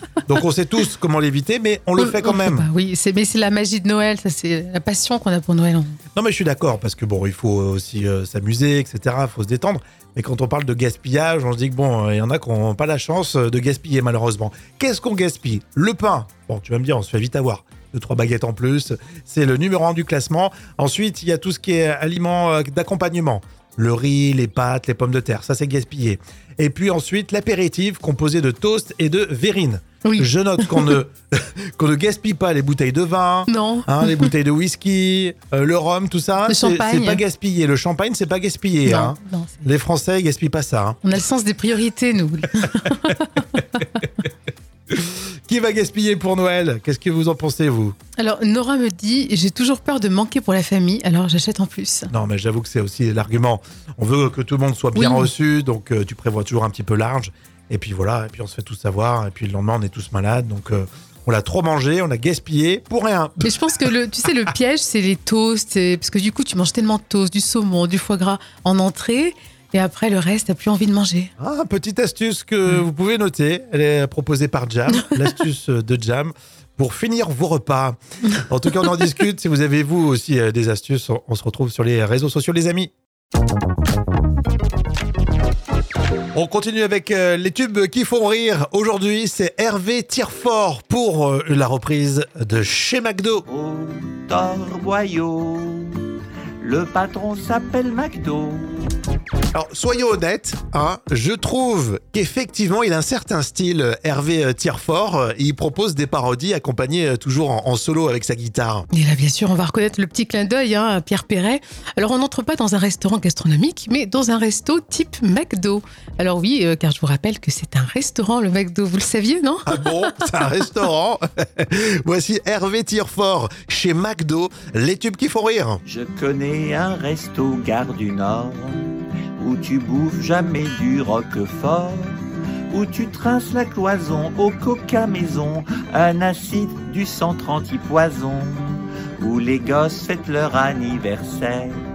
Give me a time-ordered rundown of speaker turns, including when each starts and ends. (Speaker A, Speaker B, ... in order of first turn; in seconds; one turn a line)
Speaker A: 0.3-2.7
Speaker B: 2.0-6.0
Speaker A: 6.2-41.0
Speaker B: 30.0-30.9
Speaker B: 33.5-34.3
Speaker B: 36.5-37.2
Speaker B: 38.9-39.6
Speaker B: 41.0-43.6
Speaker A: 44.9-47.9
Speaker B: 48.2-52.1
Speaker A: 52.1-63.5
Speaker B: 54.9-55.3
Speaker B: 63.4-71.3
Speaker A: 71.4-82.9
Speaker A: 86.3-93.4
Speaker C: 93.5-96.1
Speaker C: 96.6-98.9
Speaker A: 99.5-108.9
Speaker B: 108.9-119.8
Speaker A: 119.7-125.8
Speaker C: 125.8-132.2
Speaker C: 132.7-141.8